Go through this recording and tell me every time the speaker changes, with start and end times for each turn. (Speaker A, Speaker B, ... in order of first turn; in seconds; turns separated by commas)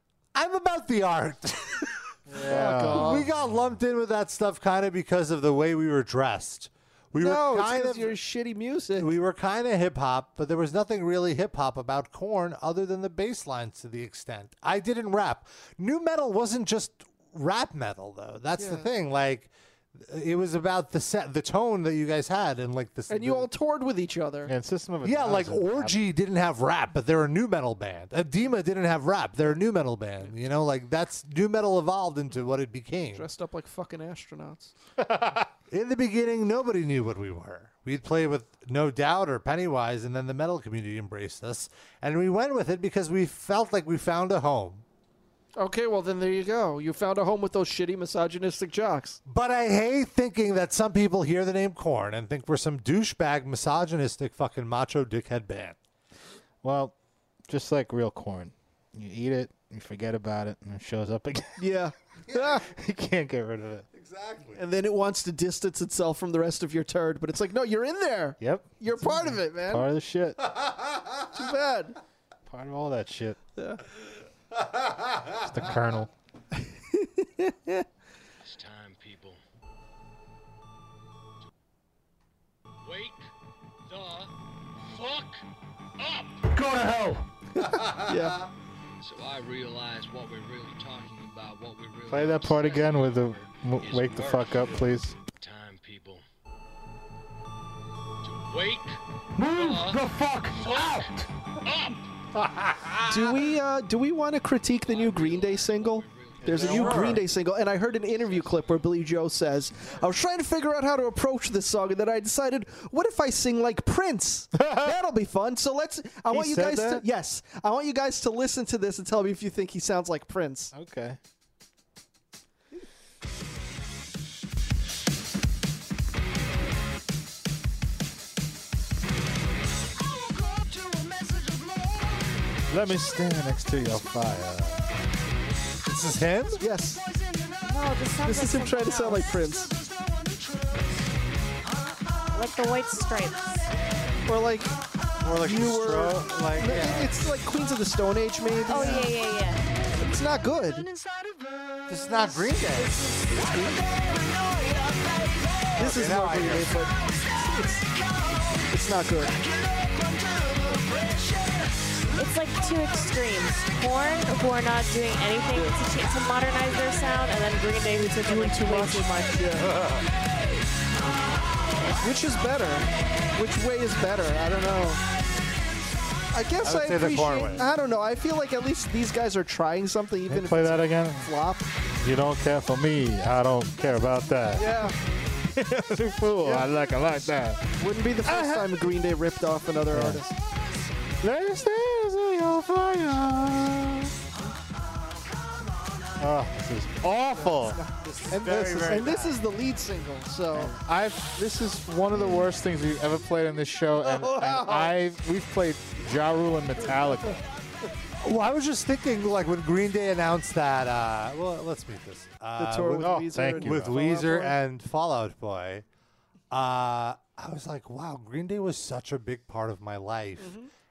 Speaker A: 0.3-8.2, Speaker B: 2.3-3.3, Speaker C: 2.4-3.2, Speaker C: 7.2-9.1, Speaker A: 9.0-23.5, Speaker C: 18.6-18.9, Speaker C: 23.1-24.5, Speaker B: 24.5-26.0, Speaker A: 25.0-33.3, Speaker C: 33.1-34.7, Speaker B: 35.0-35.5, Speaker A: 35.7-44.8, Speaker C: 45.6-49.2, Speaker A: 49.3-55.8, Speaker B: 56.6-57.0, Speaker B: 57.5-61.7, Speaker C: 61.6-62.6, Speaker B: 62.5-63.9, Speaker A: 63.9-64.6, Speaker C: 64.5-69.9, Speaker B: 68.4-70.4, Speaker C: 71.3-72.0, Speaker B: 72.5-73.4, Speaker B: 75.4-76.1, Speaker C: 76.9-77.8, Speaker D: 78.4-79.4, Speaker D: 82.8-83.2, Speaker D: 83.9-84.3, Speaker D: 84.8-85.4, Speaker D: 86.0-86.3, Speaker E: 86.5-87.2, Speaker C: 87.5-88.4, Speaker D: 89.0-96.2, Speaker B: 92.1-95.2, Speaker D: 98.2-99.0, Speaker E: 99.4-101.3, Speaker D: 99.5-100.0, Speaker D: 100.6-101.0, Speaker D: 101.7-102.0, Speaker A: 102.4-103.3, Speaker C: 103.1-120.7, Speaker D: 104.9-106.9, Speaker B: 106.5-107.2, Speaker A: 106.6-107.2, Speaker D: 107.8-108.8, Speaker B: 114.6-115.0, Speaker B: 116.3-117.0, Speaker B: 120.7-121.2, Speaker B: 132.7-134.9, Speaker A: 135.8-136.6, Speaker C: 136.6-137.0, Speaker F: 137.7-139.4, Speaker C: 138.2-139.8, Speaker F: 142.3-143.7, Speaker C: 144.3-144.8, Speaker A: 145.2-147.1, Speaker C: 145.3-149.1, Speaker F: 148.7-149.6, Speaker C: 149.9-150.9, Speaker A: 151.9-153.0, Speaker C: 153.3-153.9, Speaker A: 155.8-156.8, Speaker C: 155.8-159.4, Speaker F: 162.2-169.4, Speaker C: 167.9-169.8, Speaker A: 169.6-170.1, Speaker C: 172.0-175.0, Speaker C: 176.3-181.7, Speaker A: 176.6-177.7, Speaker B: 180.3-181.3, Speaker B: 182.0-184.9, Speaker C: 184.6-185.0, Speaker B: 185.9-188.8, Speaker C: 186.4-186.7, Speaker C: 187.8-190.3, Speaker B: 189.9-190.2, Speaker B: 191.2-194.1, Speaker B: 196.2-197.8, Speaker C: 197.3-200.7, Speaker A: 198.0-199.4, Speaker B: 200.5-207.4, Speaker C: 202.1-202.5, Speaker C: 204.1-204.9, Speaker A: 208.2-215.8, Speaker C: 212.6-214.6, Speaker B: 212.9-213.9, Speaker A: 216.5-220.5, Speaker C: 220.4-220.7